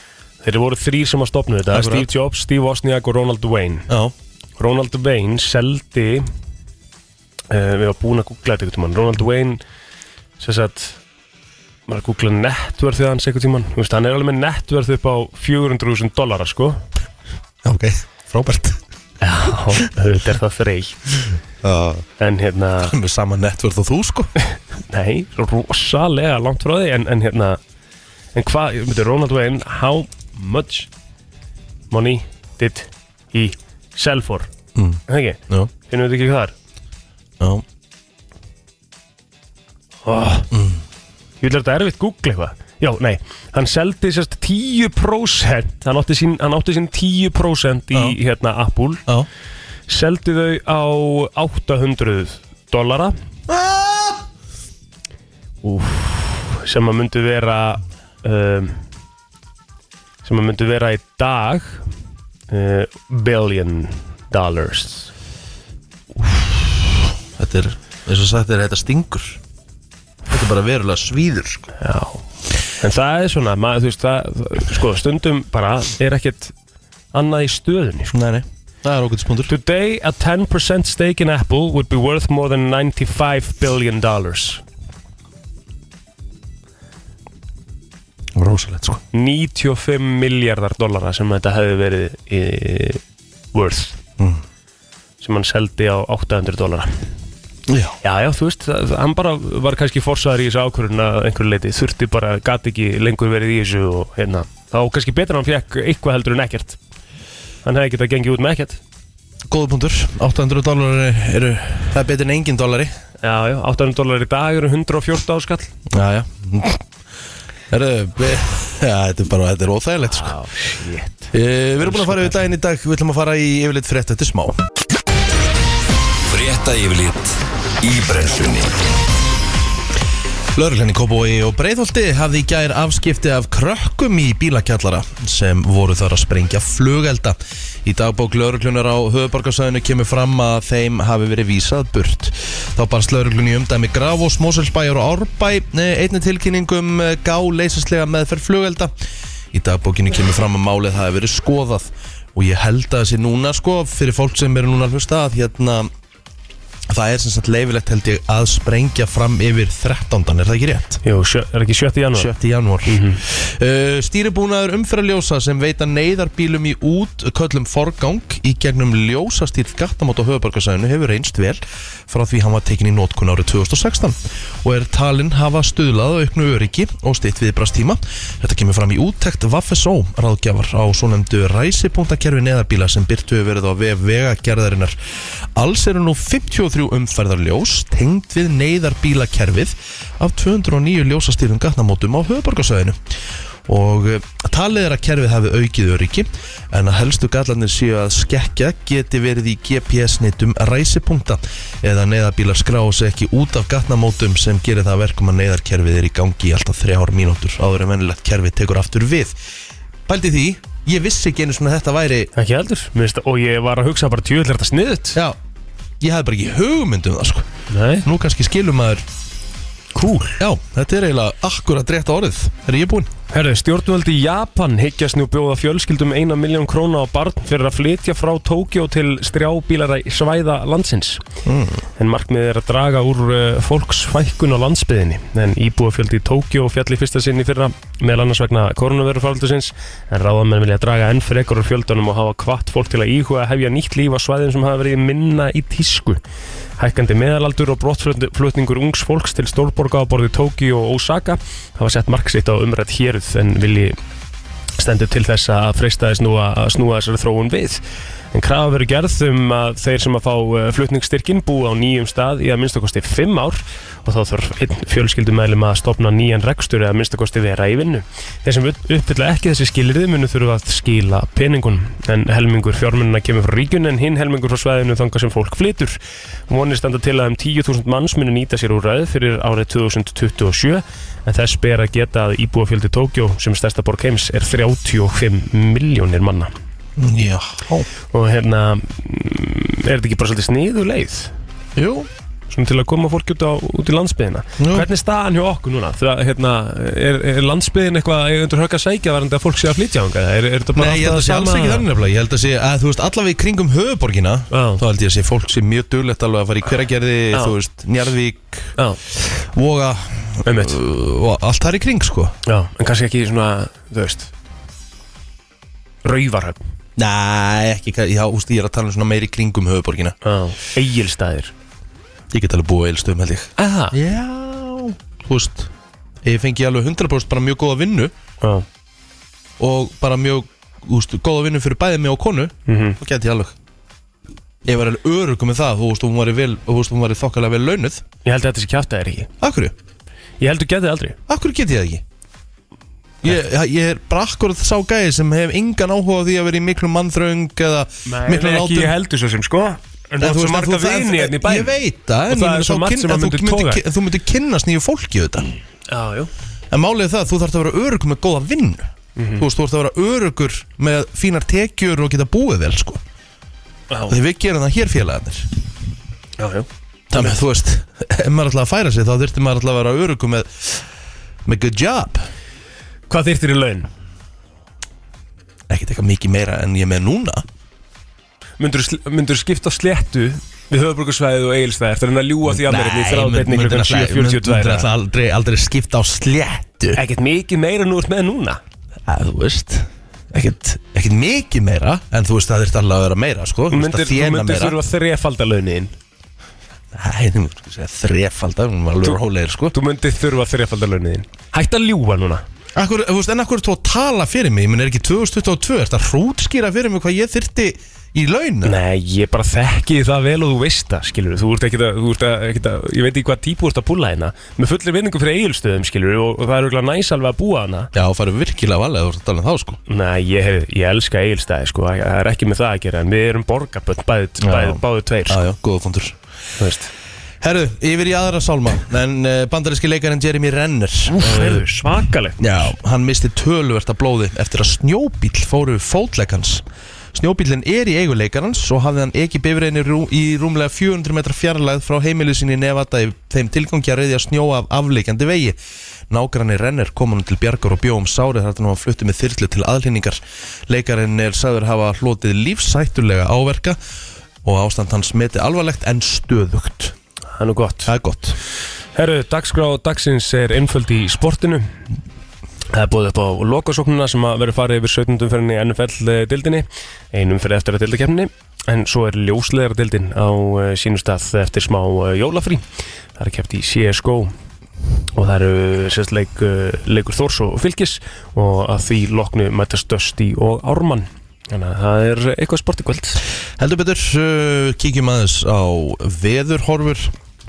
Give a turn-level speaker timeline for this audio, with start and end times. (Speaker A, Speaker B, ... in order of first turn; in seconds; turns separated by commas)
Speaker A: 0.4-3.9, Speaker B: 1.7-2.1, Speaker B: 3.9-4.1, Speaker A: 4.6-6.3, Speaker A: 7.5-9.6, Speaker A: 10.4-11.0, Speaker A: 11.9-16.8, Speaker B: 17.6-18.8, Speaker A: 19.2-21.0, Speaker B: 21.6-22.1, Speaker A: 22.2-22.9, Speaker B: 22.8-24.3, Speaker A: 24.9-27.6, Speaker A: 28.3-30.9, Speaker A: 31.9-34.5, Speaker B: 34.7-35.7, Speaker A: 35.1-36.5, Speaker A: 40.0-40.5, Speaker B: 40.5-40.8, Speaker A: 41.4-49.0, Speaker A: 49.9-53.1, Speaker B: 53.5-54.2, Speaker A: 55.6-58.8, Speaker A: 60.2-61.8, Speaker A: 62.5-65.1, Speaker B: 66.3-69.4, Speaker B: 70.3-71.7, Speaker A: 71.8-72.2, Speaker A: 72.8-76.5, Speaker A: 77.1-78.2, Speaker B: 78.1-79.5, Speaker A: 79.5-84.6, Speaker B: 88.3-89.0, Speaker A: 89.1-93.0, Speaker A: 93.5-94.0, Speaker A: 95.2-96.9, Speaker B: 97.7-98.0, Speaker A: 98.0-106.8, Speaker A: 107.6-108.8, Speaker B: 109.5-112.9, Speaker A: 113.2-115.7, Speaker B: 115.9-116.8, Speaker B: 117.7-120.3, Speaker A: 120.1-122.4, Speaker B: 121.3-124.6, Speaker C: 126.3-128.9, Speaker B: 130.5-148.9, Speaker B: 149.5-155.9, Speaker B: 156.9-161.0, Speaker A: 161.0-162.3, Speaker B: 162.1-184.9, Speaker A: 162.8-163.2, Speaker B: 185.5-193.0, Speaker B: 193.7-209.4, Speaker B: 210.1-212.3, Speaker A: 212.3-215.2, Speaker B: 216.0-217.5, Speaker A: 217.7-218.1, Speaker B: 218.0-219.1, Speaker A: 219.9-220.4, Speaker B: 220.4-223.1, Speaker A: 223.3-231.2, Speaker B: 231.4-231.8, Speaker A: 232.0-246.2, Speaker A: 246.8-254.0, Speaker A: 254.8-286.5, Speaker B: 287.0-287.9, Speaker A: 288.1-291.3, Speaker B: 291.8-292.1, Speaker A: 292.5-301.8, Speaker B: 294.6-294.9, Speaker B: 300.8-312.3, Speaker A: 304.5-304.8, Speaker A: 310.4-310.8, Speaker A: 312.4-314.3, Speaker A: 316.0-316.6, Speaker B: 316.9-320.1, Speaker A: 320.2-321.5, Speaker B: 322.3-325.7, Speaker A: 323.6-323.9, Speaker B: 326.2-328.1, Speaker B: 329.6-333.5, Speaker A: 332.7-333.0, Speaker B: 334.6-338.0, Speaker A: 338.2-339.3, Speaker B: 339.4-339.7, Speaker A: 340.4-341.2, Speaker B: 341.3-342.0, Speaker B: 343.2-348.9, Speaker A: 348.1-351.8, Speaker B: 350.2-355.5, Speaker A: 352.3-353.8, Speaker A: 355.9-356.3, Speaker B: 356.7-363.0, Speaker A: 359.1-359.4, Speaker A: 363.9-364.2, Speaker B: 364.1-365.5, Speaker A: 366.4-367.3, Speaker B: 367.1-370.8, Speaker B: 371.4-372.3, Speaker A: 373.1-373.9, Speaker B: 375.7-377.4, Speaker A: 378.6-384.9, Speaker B: 382.4-387.0, Speaker A: 386.9-388.6, Speaker B: 389.1-394.8, Speaker A: 393.7-395.9, Speaker B: 396.9-399.7, Speaker A: 399.7-402.4, Speaker B: 402.7-408.8, Speaker A: 408.6-417.9, Speaker B: 417.9-419.8, Speaker A: 419.9-425.4, Speaker B: 424.4-426.2, Speaker A: 426.6-426.9, Speaker B: 427.4-431.6, Speaker A: 431.1-432.6, Speaker B: 432.4-445.6, Speaker B: 446.1-453.8, Speaker B: 454.4-456.9, Speaker A: 457.4-457.9, Speaker B: 457.9-458.4, Speaker A: 458.9-461.8, Speaker A: 462.7-474.3, Speaker A: 475.1-483.2, Speaker B: 483.6-487.1